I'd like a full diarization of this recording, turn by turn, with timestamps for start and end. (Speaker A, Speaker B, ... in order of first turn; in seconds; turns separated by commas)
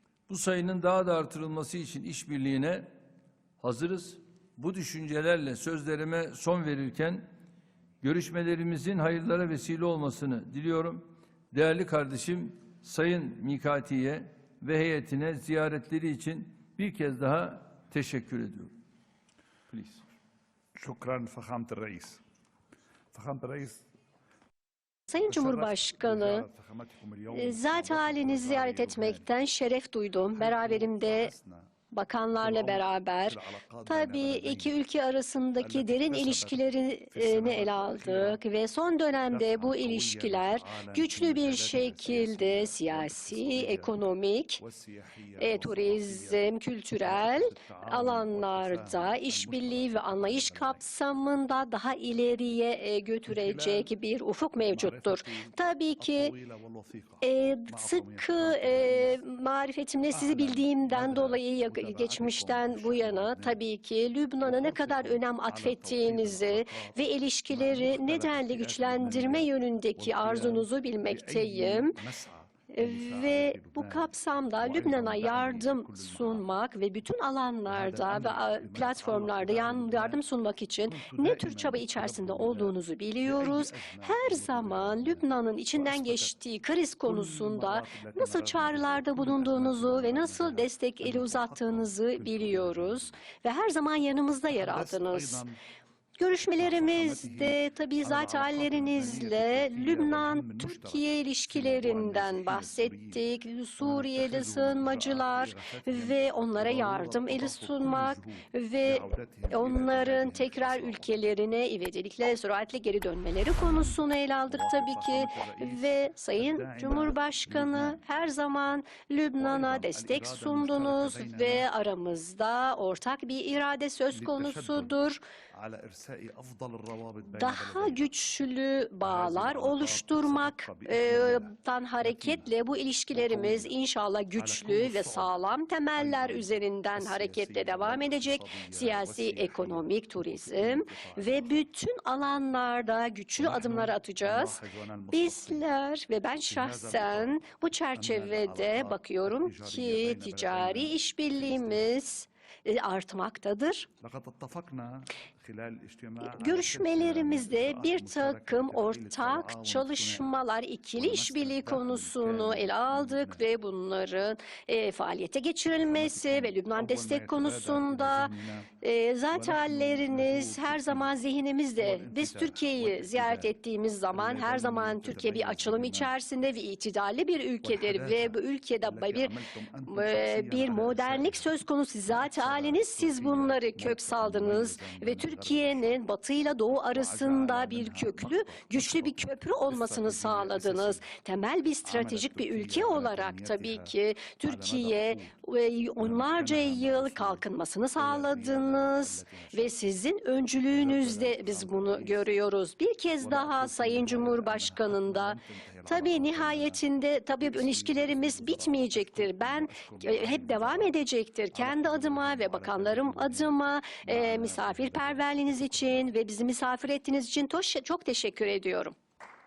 Speaker A: 0.3-2.9, Speaker A: 3.6-7.2, Speaker A: 8.0-18.7, Speaker A: 19.7-20.0, Speaker B: 20.8-22.2, Speaker B: 23.1-23.8, Speaker C: 25.1-26.5, Speaker B: 25.3-29.3, Speaker C: 27.3-31.3, Speaker B: 30.4-31.6, Speaker C: 31.9-44.6, Speaker B: 32.4-34.8, Speaker B: 35.6-36.6, Speaker B: 37.1-38.4, Speaker B: 39.3-44.0, Speaker B: 44.6-46.4, Speaker C: 45.4-56.3, Speaker B: 47.0-50.8, Speaker B: 53.3-53.9, Speaker B: 54.6-59.2, Speaker C: 57.2-72.0, Speaker B: 60.1-63.6, Speaker B: 64.5-67.0, Speaker B: 67.5-76.4, Speaker C: 72.7-95.4, Speaker B: 77.7-80.2, Speaker B: 80.9-85.2, Speaker B: 85.8-86.3, Speaker B: 87.0-93.2, Speaker B: 94.5-95.6, Speaker C: 96.2-125.2, Speaker B: 96.6-103.2, Speaker B: 103.8-111.2, Speaker B: 113.6-114.0, Speaker B: 114.5-118.0, Speaker B: 119.4-121.7, Speaker B: 124.1-124.9, Speaker B: 125.5-128.1, Speaker C: 127.3-153.9, Speaker B: 129.0-131.5, Speaker B: 132.0-132.4, Speaker B: 133.2-133.7, Speaker B: 134.4-135.3, Speaker B: 136.0-139.8, Speaker B: 140.5-141.5, Speaker B: 143.4-145.6, Speaker B: 146.5-147.4, Speaker B: 147.9-151.9, Speaker B: 154.0-160.2, Speaker C: 156.2-179.3, Speaker B: 161.0-163.4, Speaker B: 165.9-168.7, Speaker B: 169.3-171.1, Speaker B: 171.8-173.5, Speaker B: 174.1-176.1, Speaker B: 177.6-181.5, Speaker C: 179.9-218.9, Speaker B: 182.1-185.9, Speaker B: 186.9-191.0, Speaker B: 191.8-195.3, Speaker B: 196.0-197.4, Speaker B: 198.0-199.8, Speaker B: 200.7-202.3, Speaker B: 203.2-206.8, Speaker B: 207.4-210.9, Speaker B: 211.5-216.1